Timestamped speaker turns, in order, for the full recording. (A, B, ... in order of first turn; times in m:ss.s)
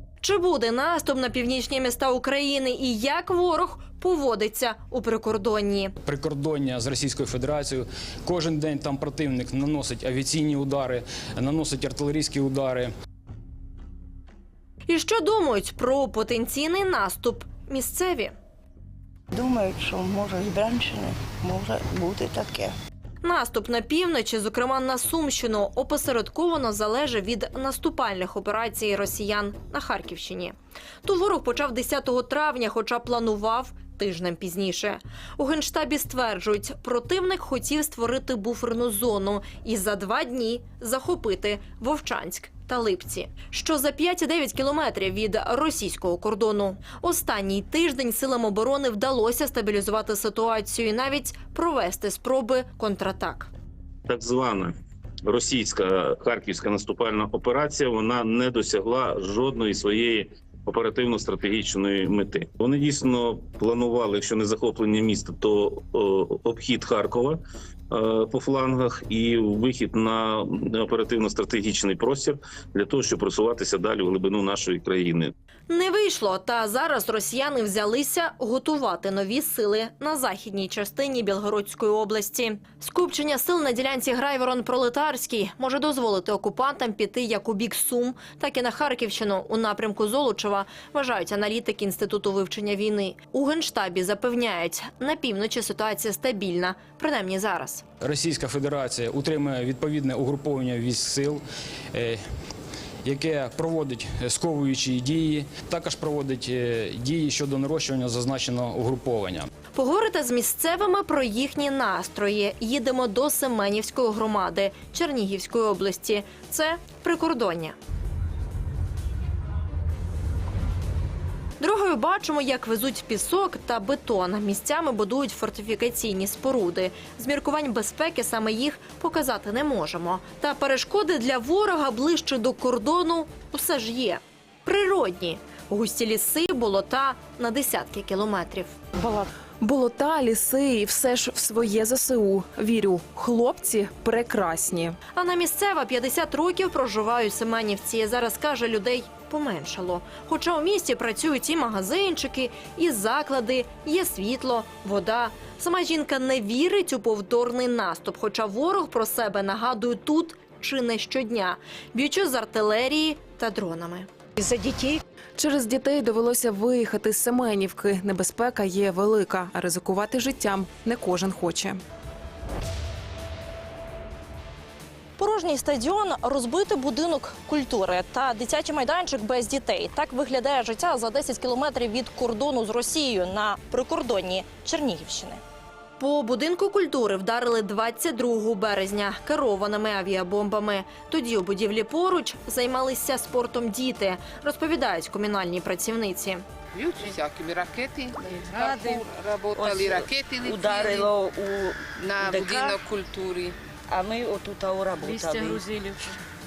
0:00.2-0:05.9 A
0:06.0-0:12.9 B
0:14.9-0:18.3 A
0:19.3-0:22.7 C
0:23.2-0:53.5 A
0:54.1-0:54.7 D
0:55.3-1:15.3 D
1:15.7-1:37.8 A
1:38.0-1:42.2 B
1:43.0-1:49.5 B
1:49.8-1:57.8 A
2:01.6-2:18.7 A
2:19.0-2:25.0 E
2:25.2-2:44.1 A
2:44.4-2:51.8 E
2:55.2-3:05.4 A
3:06.0-3:16.4 A
3:16.7-3:21.1 F
3:18.2-3:23.0 G
3:22.0-3:23.6 F
3:23.9-3:26.1 G